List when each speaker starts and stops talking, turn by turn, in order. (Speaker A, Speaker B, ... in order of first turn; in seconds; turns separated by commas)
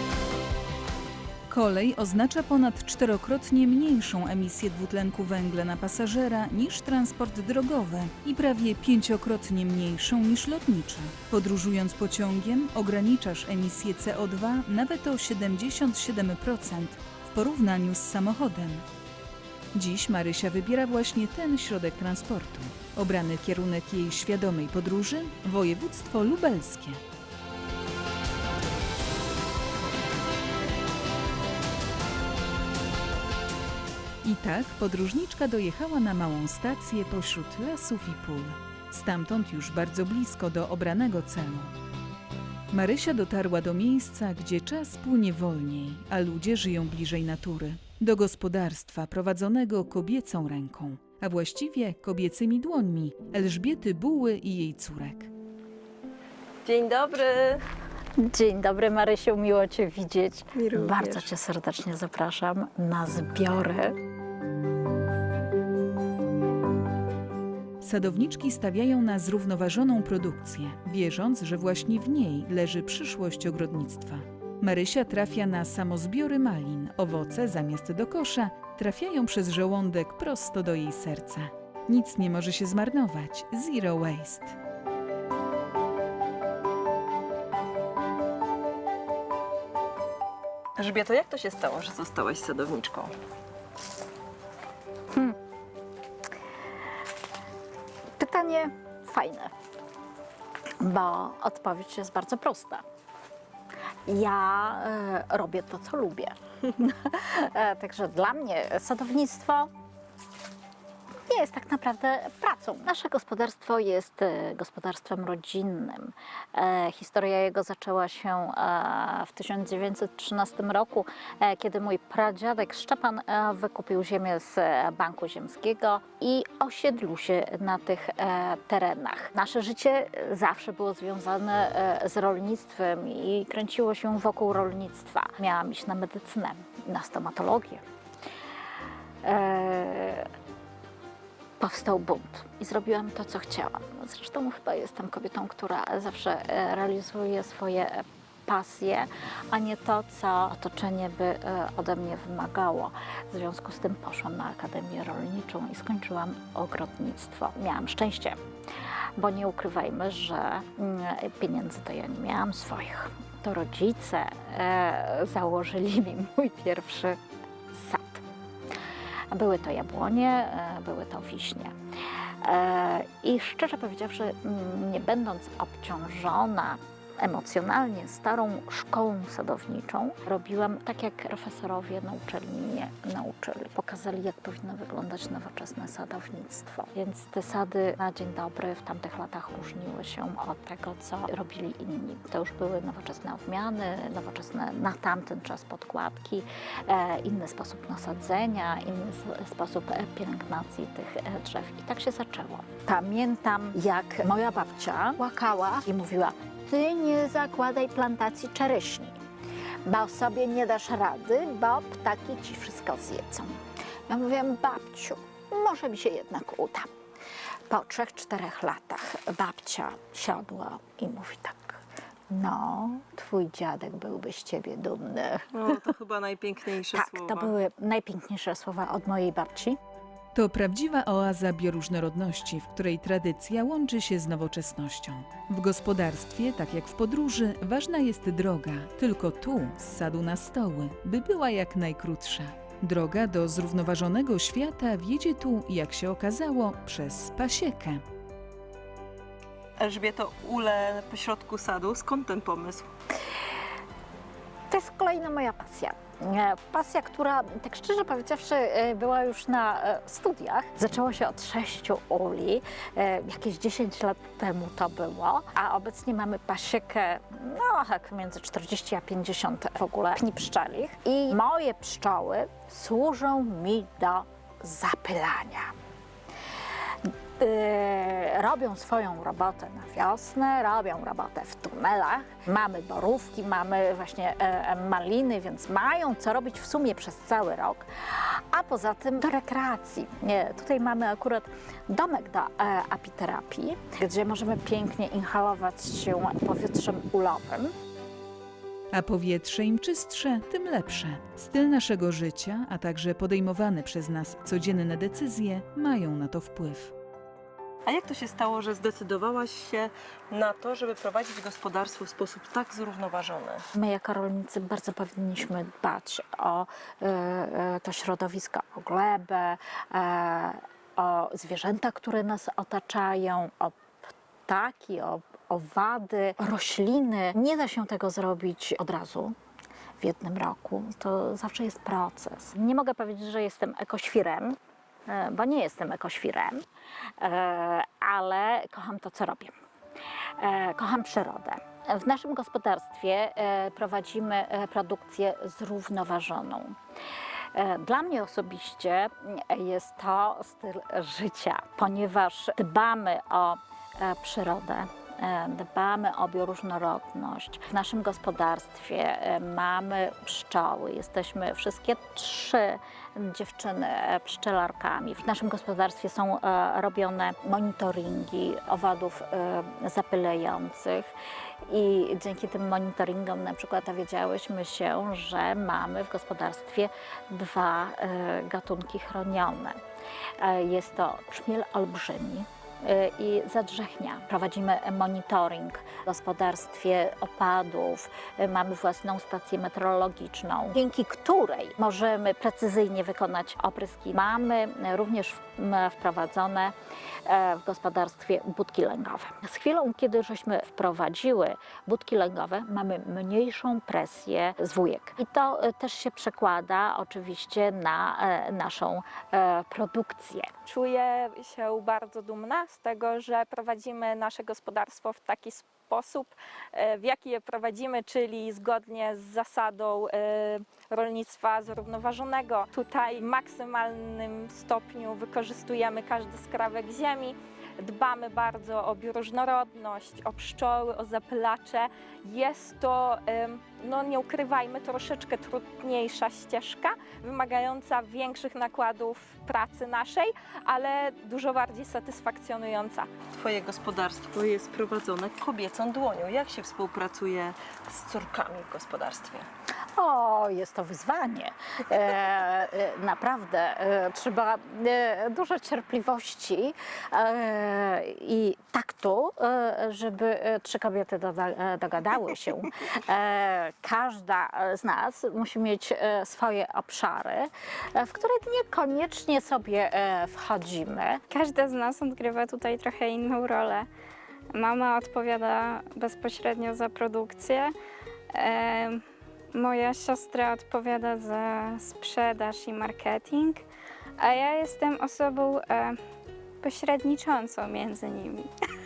Speaker A: 1.5-18.8, Speaker A: 19.7-27.0, Speaker A: 34.2-41.7, Speaker A: 42.7-55.3, Speaker B: 56.6-57.6, Speaker C: 58.2-64.0, Speaker B: 60.5-61.3, Speaker A: 67.8-84.6, Speaker B: 90.8-93.1, Speaker C: 98.2-99.5, Speaker C: 100.8-102.8, Speaker C: 104.1-109.7, Speaker C: 111.3-137.8, Speaker C: 139.2-140.3, Speaker C: 141.6-158.4, Speaker C: 159.2-167.2, Speaker C: 167.7-168.2, Speaker C: 169.3-171.7, Speaker C: 172.4-209.2, Speaker C: 209.8-216.9, Speaker C: 217.7-225.8, Speaker B: 225.5-227.5, Speaker C: 226.9-229.8, Speaker A: 230.3-248.0, Speaker B: 249.8-252.9, Speaker C: 254.7-275.7, Speaker C: 277.0-297.7, Speaker A: 298.9-306.9, Speaker B: 307.8-313.6, Speaker C: 313.7-329.4, Speaker C: 330.0-336.6, Speaker C: 337.2-339.5, Speaker C: 340.4-346.8, Speaker C: 347.5-371.1, Speaker C: 371.6-379.8, Speaker C: 380.4-396.7, Speaker C: 397.2-410.5, Speaker D: 410.6-443.1, Speaker B: 443.3-449.5, Speaker C: 449.9-471.2, Speaker E: 471.3-473.9, Speaker E: 474.5-477.7, Speaker E: 478.3-483.6, Speaker E: 484.2-486.0, Speaker E: 486.6-488.5